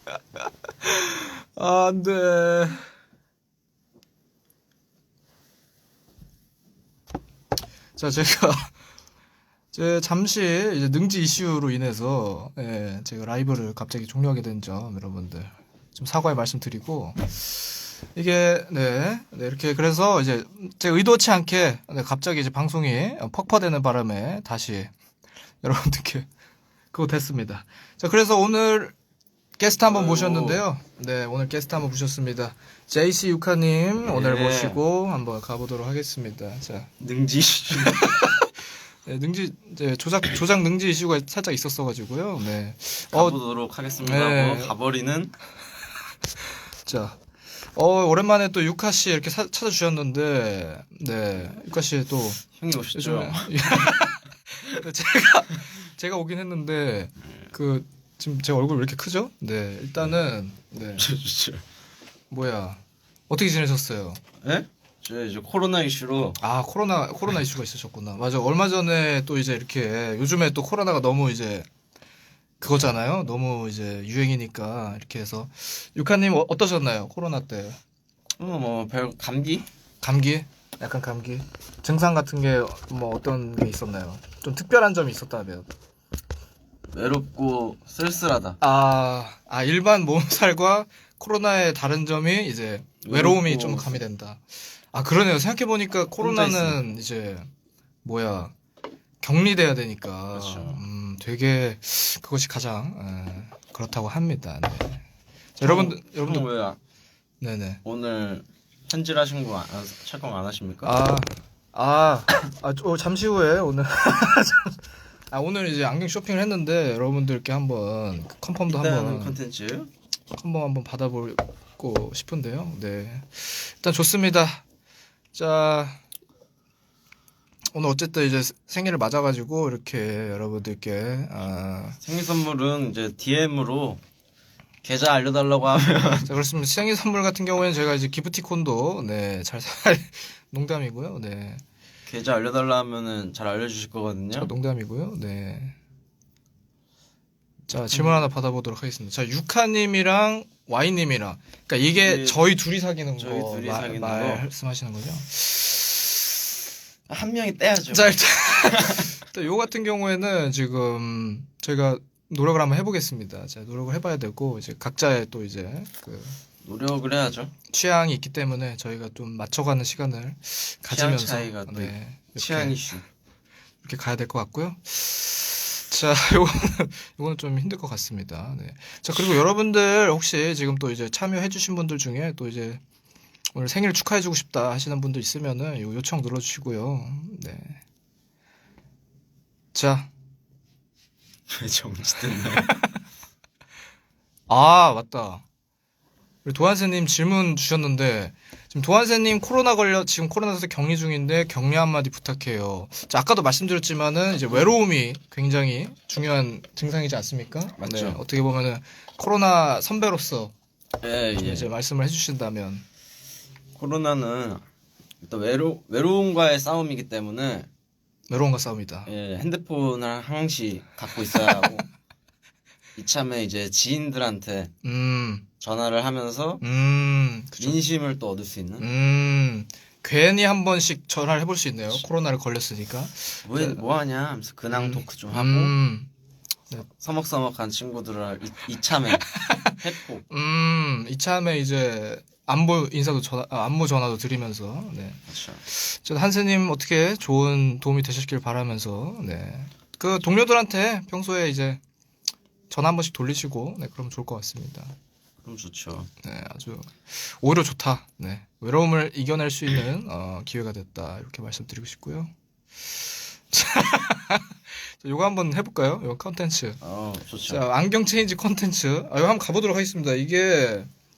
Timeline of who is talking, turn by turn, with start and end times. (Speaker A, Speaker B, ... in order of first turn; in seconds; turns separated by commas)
Speaker A: 0.8-2.9, Speaker A: 8.0-8.7, Speaker A: 9.7-24.9, Speaker A: 25.6-26.3, Speaker A: 26.9-28.9, Speaker A: 29.6-36.9, Speaker B: 29.8-30.6, Speaker B: 34.1-34.8, Speaker B: 37.0-38.2, Speaker A: 37.7-43.4, Speaker B: 43.1-45.3, Speaker A: 44.0-44.7, Speaker A: 46.8-61.1, Speaker B: 52.5-53.9, Speaker B: 61.0-61.6, Speaker A: 62.3-64.2, Speaker B: 64.4-66.4, Speaker A: 66.4-71.7, Speaker A: 72.6-77.8, Speaker B: 78.4-79.7, Speaker A: 80.0-85.7, Speaker B: 86.9-88.6, Speaker A: 88.6-97.5, Speaker B: 93.0-94.0, Speaker B: 96.2-96.8, Speaker A: 98.0-98.5, Speaker A: 99.2-105.0, Speaker B: 100.3-100.8, Speaker A: 105.5-106.5, Speaker B: 105.6-106.8, Speaker A: 107.4-107.8, Speaker B: 107.8-110.9, Speaker A: 110.8-114.8, Speaker A: 115.3-119.4, Speaker B: 118.7-119.9, Speaker A: 120.3-124.6, Speaker A: 125.3-126.0, Speaker A: 127.7-132.0, Speaker B: 132.0-134.0, Speaker B: 134.8-136.3, Speaker A: 136.2-141.6, Speaker B: 142.1-144.5, Speaker A: 144.4-145.7, Speaker A: 147.7-156.2, Speaker B: 147.8-148.3, Speaker B: 152.0-152.4, Speaker B: 153.2-154.4, Speaker B: 157.1-159.1, Speaker A: 157.9-166.4, Speaker B: 166.6-167.5, Speaker A: 167.7-172.8, Speaker B: 170.9-173.1, Speaker A: 173.8-182.8, Speaker A: 183.5-187.8, Speaker A: 189.7-190.1, Speaker B: 191.5-192.7, Speaker A: 192.4-193.0, Speaker A: 194.5-195.4, Speaker A: 196.4-210.5, Speaker B: 207.8-208.2, Speaker B: 211.0-211.7, Speaker A: 211.4-212.8, Speaker B: 213.7-214.6, Speaker B: 215.2-217.7, Speaker A: 218.3-219.1, Speaker B: 219.1-221.8, Speaker B: 222.9-224.7, Speaker A: 224.8-225.4, Speaker B: 225.6-226.6, Speaker A: 226.6-227.8, Speaker B: 227.6-228.8, Speaker A: 228.8-233.8, Speaker B: 233.4-235.7, Speaker A: 234.7-236.1, Speaker B: 236.9-240.2, Speaker A: 239.3-239.7, Speaker A: 240.3-251.8, Speaker B: 245.3-245.6, Speaker A: 252.7-254.9, Speaker B: 255.4-256.1, Speaker A: 256.2-262.3, Speaker A: 263.5-266.8, Speaker B: 266.8-267.6, Speaker A: 267.5-270.9